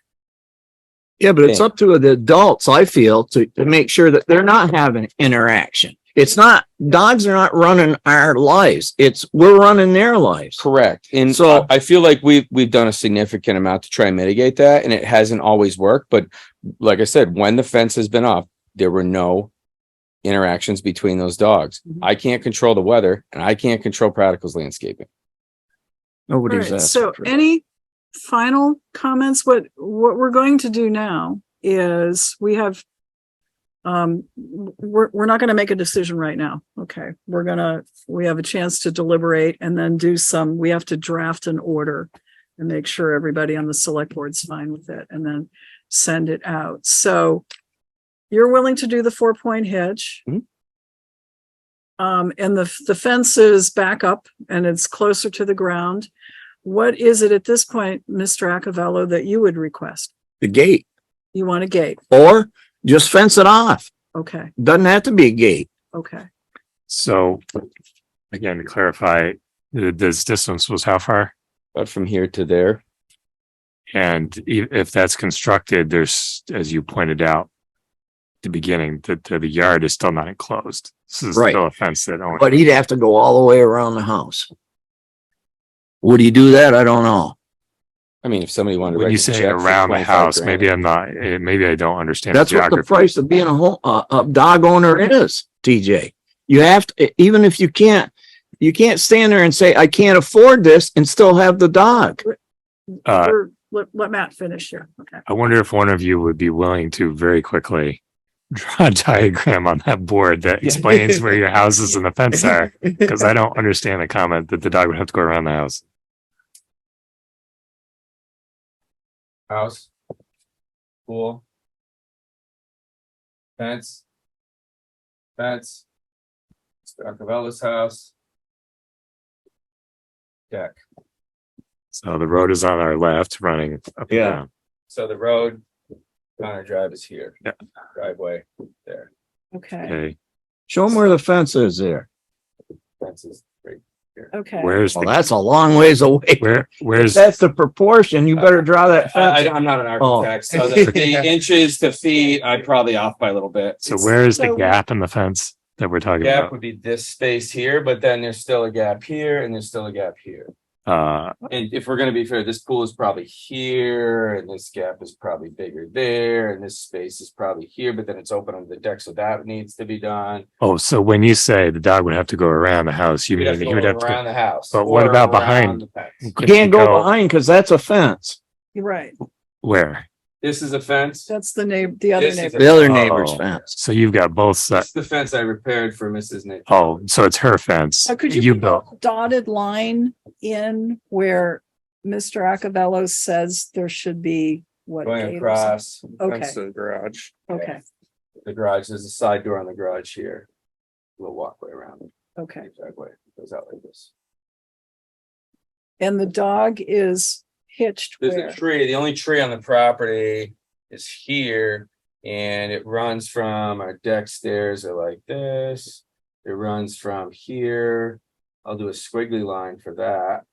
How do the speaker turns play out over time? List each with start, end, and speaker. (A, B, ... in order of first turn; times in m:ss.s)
0:01.2-0:10.6 A
0:10.6-0:19.5 B
0:11.3-0:11.7 A
0:20.2-0:25.1 B
0:26.3-0:27.3 A
0:26.5-0:27.6 C
0:28.2-0:32.8 C
0:33.8-0:47.4 C
0:48.3-0:50.3 C
0:52.0-0:56.1 C
0:56.6-1:00.1 C
1:00.4-1:00.8 A
1:01.3-1:02.0 C
1:02.1-1:03.9 A
1:04.2-1:04.5 C
1:04.6-1:05.7 A
1:05.9-1:06.2 C
1:06.9-1:07.4 D
1:08.3-1:11.3 D
1:11.8-1:12.8 B
1:13.9-1:17.5 D
1:18.4-1:22.5 D
1:21.3-1:21.6 A
1:22.4-1:24.5 A
1:26.0-1:27.4 A
1:28.2-1:30.7 B
1:28.9-1:33.1 D
1:32.3-1:42.2 A
1:43.1-1:43.4 D
1:43.1-1:45.2 C
1:45.3-1:48.0 D
1:48.5-1:55.8 D
1:59.5-1:59.9 B
2:01.1-2:01.4 B
2:03.6-2:04.0 B
2:05.4-2:05.8 B
2:06.8-2:08.1 B
2:10.5-2:10.8 B
2:11.9-2:14.5 D
2:14.1-2:14.4 A
2:14.9-2:15.6 B
2:16.4-2:17.4 B
2:18.0-2:19.1 B
2:19.5-2:20.0 C
2:19.8-2:20.2 D
2:20.7-2:22.1 A
2:23.0-2:24.3 B
2:24.3-2:24.8 C
2:24.6-2:25.2 D
2:24.9-2:29.5 A
2:26.4-2:27.3 D
2:29.0-2:34.0 B
2:30.0-2:31.0 A
2:33.8-2:36.5 D
2:34.0-2:34.8 C
2:36.2-2:40.5 B
2:40.9-2:41.3 D
2:41.5-2:50.5 B
2:50.6-2:57.1 D
2:53.3-2:56.3 B
2:56.4-2:58.4 A
2:58.8-2:59.2 C
2:59.6-3:00.0 D
3:00.4-3:01.3 B
3:01.3-3:02.8 C
3:02.2-3:03.0 B
3:02.6-3:03.7 A
3:02.8-3:04.9 D
3:04.7-3:07.0 B
3:06.7-3:08.8 D
3:08.1-3:16.6 C
3:15.0-3:17.8 B
3:17.5-3:17.8 C
3:18.4-3:20.5 B
3:21.2-3:24.1 B
3:22.4-3:22.7 C
3:26.0-3:28.6 C
3:28.2-3:40.4 B